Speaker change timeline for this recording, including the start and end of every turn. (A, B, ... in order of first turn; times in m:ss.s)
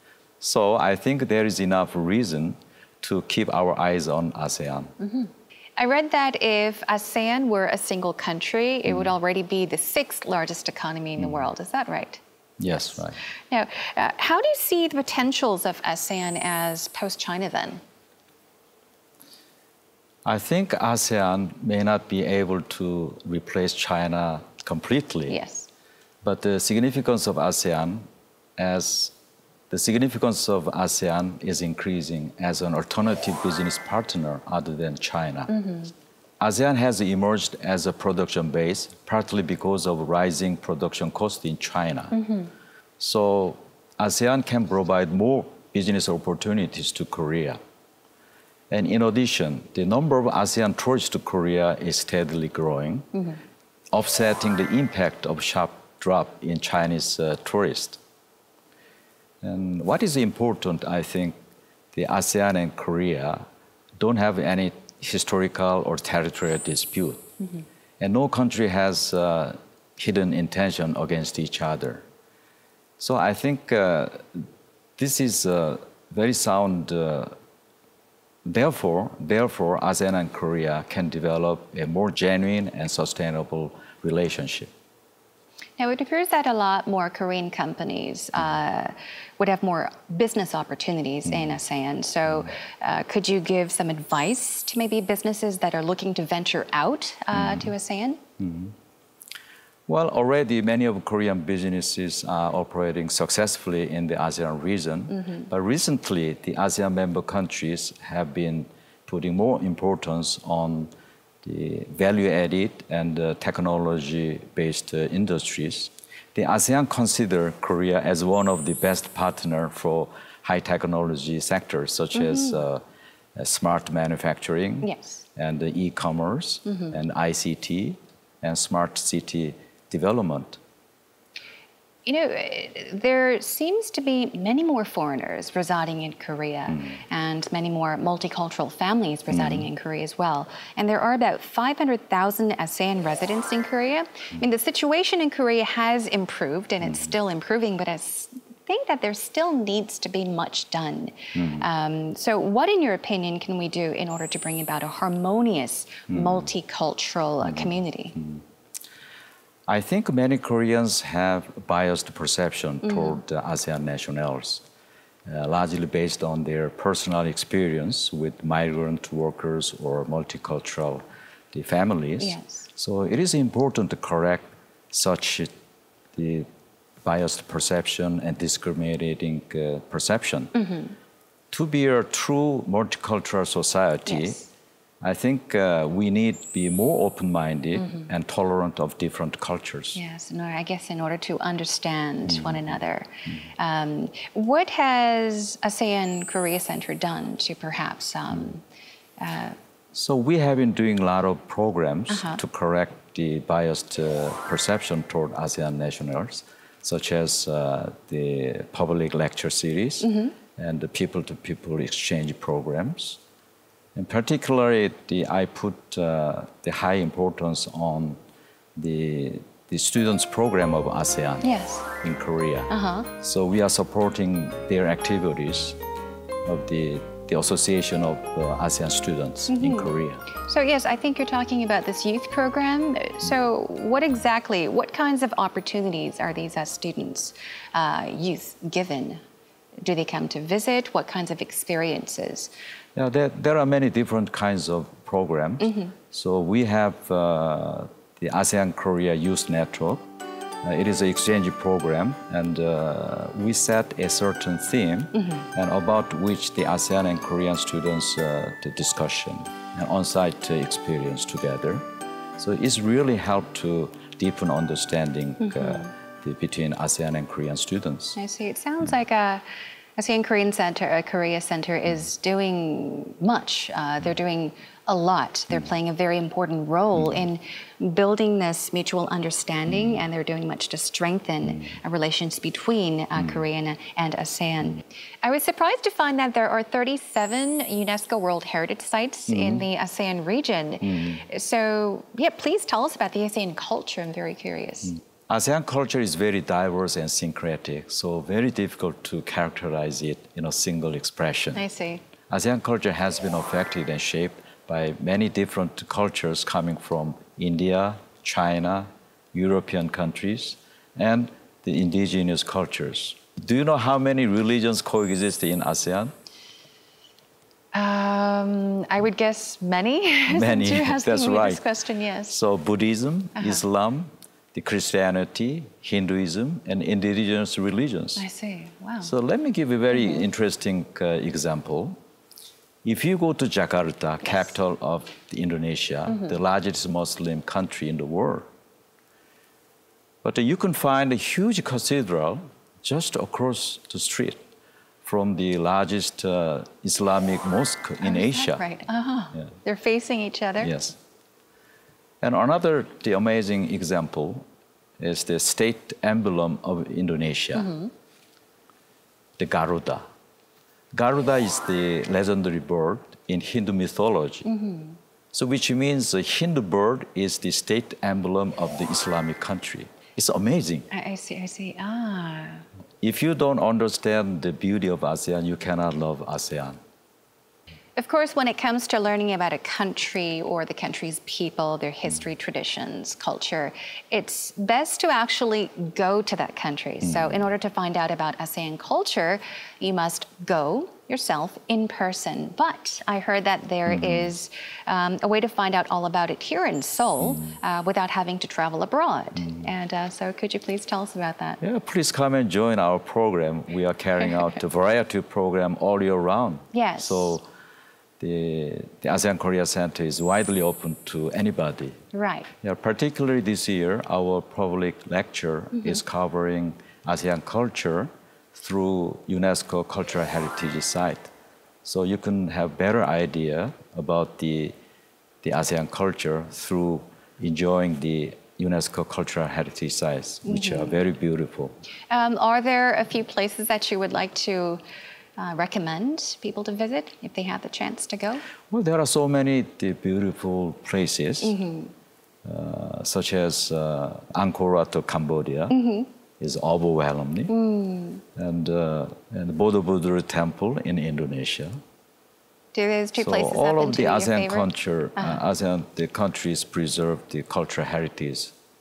0:00.4-0:04.9 A
0:05.0-0:12.2 B
0:11.2-0:11.4 A
0:12.6-0:13.2 A
0:13.5-0:17.8 B
0:20.2-0:25.4 A
0:25.3-0:25.7 B
0:26.2-0:28.1 A
0:28.6-0:29.1 A
0:29.7-0:35.5 A
0:35.5-0:35.9 B
0:36.4-0:42.2 A
0:42.1-0:42.5 B
0:43.0-0:47.6 A
0:48.7-0:53.1 A
0:53.2-0:53.4 B
0:53.9-0:58.0 A
0:59.4-1:01.4 A
1:01.9-1:03.4 A
1:04.0-1:07.3 A
1:08.0-1:12.0 A
1:13.0-1:17.3 A
1:18.4-1:24.7 A
1:25.8-1:38.2 B
1:31.2-1:31.6 A
1:37.3-1:37.7 A
1:38.4-1:38.7 A
1:39.9-1:50.9 A
1:51.4-2:02.8 A
2:02.2-2:02.6 B
2:03.4-2:10.6 A
2:04.8-2:05.2 B
2:06.7-2:06.9 B
2:12.1-2:38.2 B
2:19.3-2:19.7 A
2:31.4-2:31.7 A
2:36.1-2:36.5 A
2:37.4-2:38.4 A
2:39.7-2:44.6 A
2:42.8-2:43.2 B
2:45.3-2:55.5 A
2:52.2-2:52.7 B
2:56.1-2:56.5 A
2:57.0-3:00.6 A
3:00.6-3:00.9 B
3:01.5-3:04.4 A
3:04.1-3:04.5 B
3:05.0-3:10.0 A
3:07.8-3:08.1 B
3:10.0-3:18.6 B
3:12.3-3:12.6 A
3:19.2-3:19.6 B
3:19.9-3:33.2 A
3:22.1-3:22.4 B
3:30.0-3:30.4 B
3:34.0-3:38.2 A
3:38.8-3:45.8 A
3:41.4-3:41.9 B
3:42.7-3:43.1 B
3:46.4-3:50.2 A
3:49.5-3:59.2 B
3:59.8-4:02.5 B
4:03.0-4:10.0 A
4:05.6-4:05.9 B
4:10.6-4:21.9 A
4:15.2-4:15.4 B
4:22.4-4:28.2 A
4:25.4-4:25.9 B
4:28.2-4:29.4 B
4:30.0-4:55.0 B
4:43.2-4:43.4 A
4:49.3-4:49.6 A
4:50.8-4:51.2 A
4:55.3-5:01.6 A
5:01.6-5:02.0 B
5:02.3-5:16.1 A
5:17.7-5:22.4 B
5:20.3-5:21.6 A
5:22.3-5:28.3 A
5:23.4-5:23.6 B
5:28.2-5:29.1 B
5:29.0-5:32.0 A
5:30.0-5:30.2 B
5:32.8-5:38.5 A
5:40.2-5:44.4 A
5:45.0-5:48.6 A
5:48.0-5:50.8 B
5:50.6-5:51.0 A
5:52.2-5:54.5 A
5:55.0-5:57.7 A
5:57.6-5:57.9 B
5:59.4-6:00.0 A
6:00.9-6:04.5 A
6:04.4-6:05.0 B
6:05.3-6:10.9 A
6:10.9-6:12.6 B
6:13.0-6:16.8 A
6:18.0-6:41.6 B
6:27.0-6:27.4 A
6:33.9-6:34.3 A
6:41.6-6:47.4 A
6:46.7-6:47.3 B
6:48.2-6:52.0 A
6:52.1-6:52.5 B
6:52.6-7:01.3 A
7:01.8-7:04.7 A
7:05.4-7:11.8 A
7:10.5-7:11.0 B
7:12.1-7:14.8 B
7:15.4-7:18.4 B
7:18.7-7:21.6 A
7:21.4-7:21.9 B
7:22.4-7:25.8 A
7:25.7-7:26.1 B
7:26.4-7:27.5 A
7:27.5-7:28.2 B
7:28.4-7:31.8 A
7:32.7-7:35.4 B
7:33.2-7:38.5 A